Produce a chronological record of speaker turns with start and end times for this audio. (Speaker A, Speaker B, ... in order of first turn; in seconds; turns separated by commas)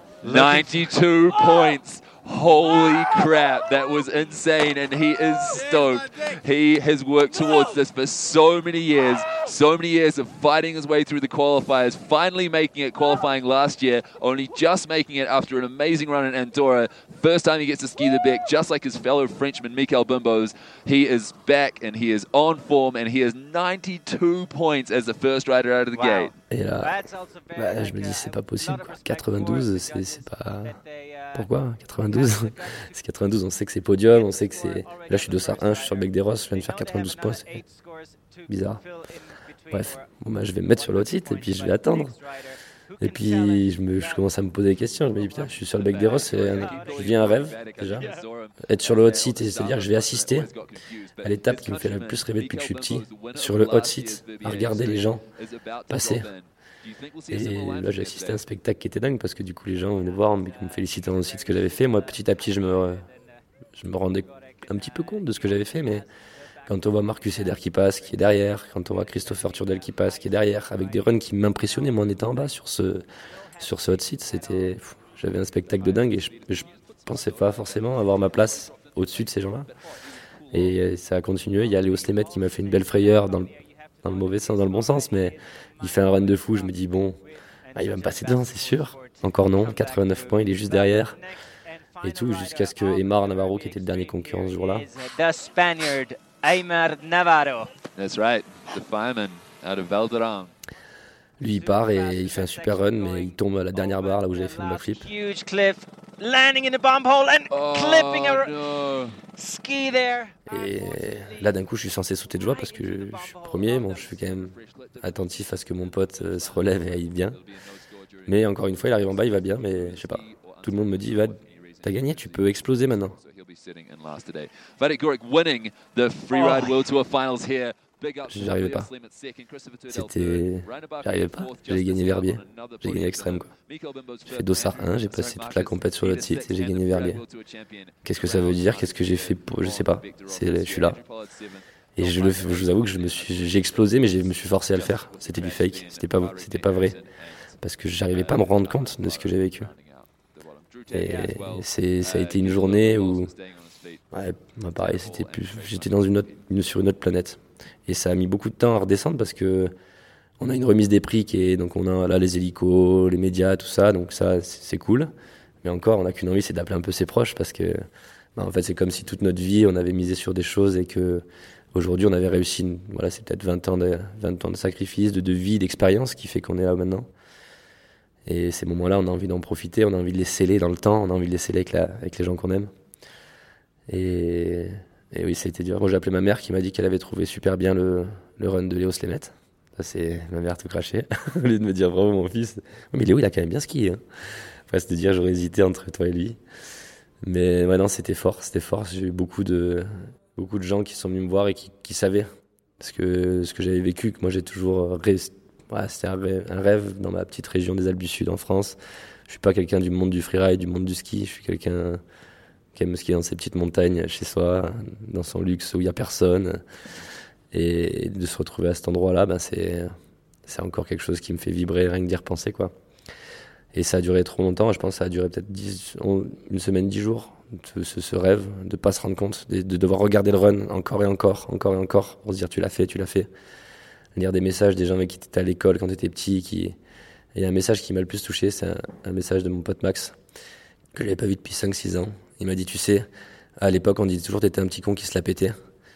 Speaker A: 0.2-26.3, Speaker B: 0.2-0.5, Speaker B: 25.9-31.4, Speaker C: 26.5-30.8, Speaker C: 31.3-37.6, Speaker B: 32.1-32.9, Speaker B: 34.1-40.0, Speaker C: 38.5-38.8, Speaker C: 39.7-42.1, Speaker B: 40.7-44.3, Speaker C: 43.0-48.1, Speaker A: 45.4-58.4, Speaker B: 46.5-47.1, Speaker B: 47.9-48.2, Speaker C: 48.6-50.5, Speaker C: 51.2-55.2, Speaker C: 55.9-56.3, Speaker C: 57.3-63.1, Speaker B: 59.9-63.3, Speaker C: 63.8-66.1, Speaker B: 64.2-66.1, Speaker B: 66.6-67.7, Speaker C: 66.7-73.0, Speaker B: 69.3-70.9, Speaker B: 71.6-72.1, Speaker C: 73.6-79.7, Speaker A: 74.4-74.7, Speaker A: 75.6-80.8, Speaker C: 80.5-87.2, Speaker A: 81.6-82.3, Speaker B: 82.6-97.7, Speaker C: 87.7-91.2, Speaker C: 92.0-94.9, Speaker A: 98.0-100.5, Speaker C: 101.4-105.1, Speaker B: 101.5-108.5, Speaker A: 107.5-109.2, Speaker B: 109.3-111.5, Speaker C: 110.5-117.4, Speaker B: 112.3-113.9, Speaker A: 113.8-147.5, Speaker C: 118.2-123.2, Speaker C: 128.3-128.9, Speaker C: 129.9-133.5, Speaker C: 134.2-137.2, Speaker C: 138.0-141.0, Speaker C: 142.0-147.0, Speaker C: 147.6-149.7, Speaker A: 148.1-154.1, Speaker C: 150.9-153.3, Speaker C: 154.1-159.7, Speaker A: 154.7-156.4, Speaker C: 160.4-165.1, Speaker C: 165.6-167.8, Speaker C: 168.3-177.1, Speaker C: 178.2-182.7, Speaker C: 183.9-194.0, Speaker C: 194.7-196.4, Speaker C: 197.2-212.0, Speaker C: 212.7-216.6, Speaker C: 217.5-219.9, Speaker C: 220.4-222.7, Speaker C: 223.7-233.3, Speaker C: 234.1-236.8, Speaker C: 237.3-240.2, Speaker C: 240.9-243.1, Speaker C: 243.6-245.6